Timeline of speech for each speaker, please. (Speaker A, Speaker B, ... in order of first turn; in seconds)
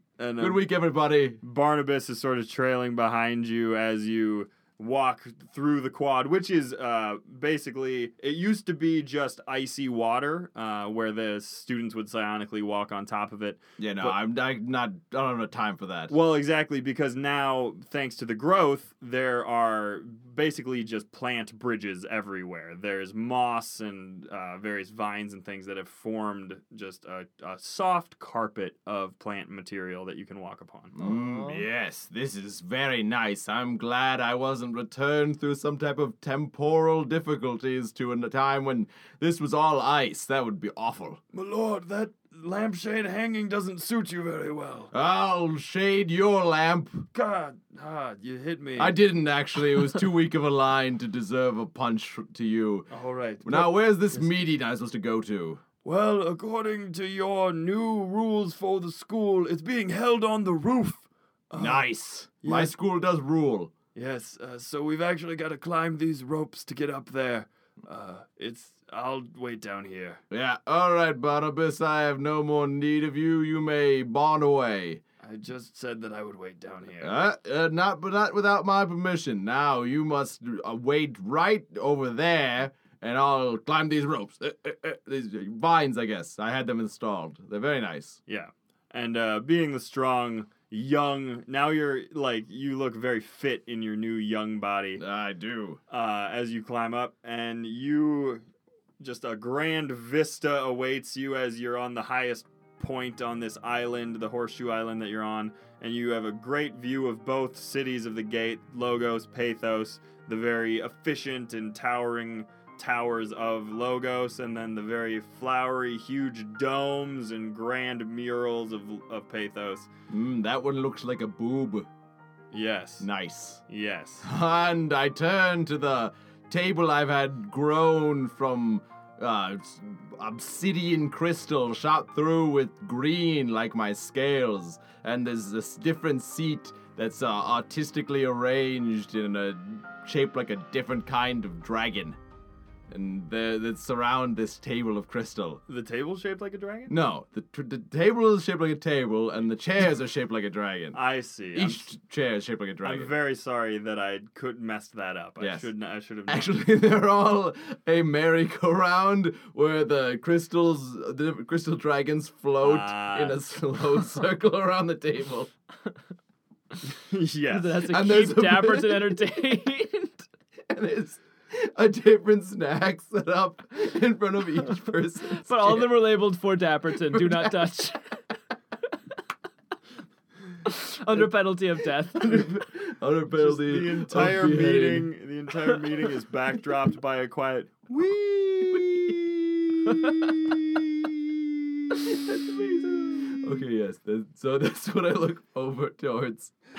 Speaker A: 0.2-0.7, 1.4-14.2, 16.1-30.9, 41.3-44.9, 47.1-49.0, 52.9-54.3, 55.9-61.9, 62.4-62.7, 64.0-70.2, 75.2-77.2, 88.3-95.0, 95.9-98.4, 99.0-119.9, 122.5-123.1, 123.7-124.3, 145.7-146.9, 150.9-151.9, 152.8-156.6, 162.6-163.4, 167.1-167.8, 183.3-188.0
Speaker B: 0.4-1.4, 13.8-16.1, 31.0-41.2, 44.9-47.1, 48.8-52.9, 53.5-55.6, 61.6-63.7, 70.3-75.0, 77.0-88.2, 95.0-95.8, 120.1-121.9, 123.0-123.6, 124.2-142.2, 142.9-145.6, 146.9-151.0, 151.5-153.1, 155.4-155.7, 156.3-165.5, 167.9-169.2, 170.7-175.9, 182.2-185.1, 187.9-196.5
Speaker C: 31.0-31.6, 167.5-170.3, 175.3-178.2, 180.7-182.6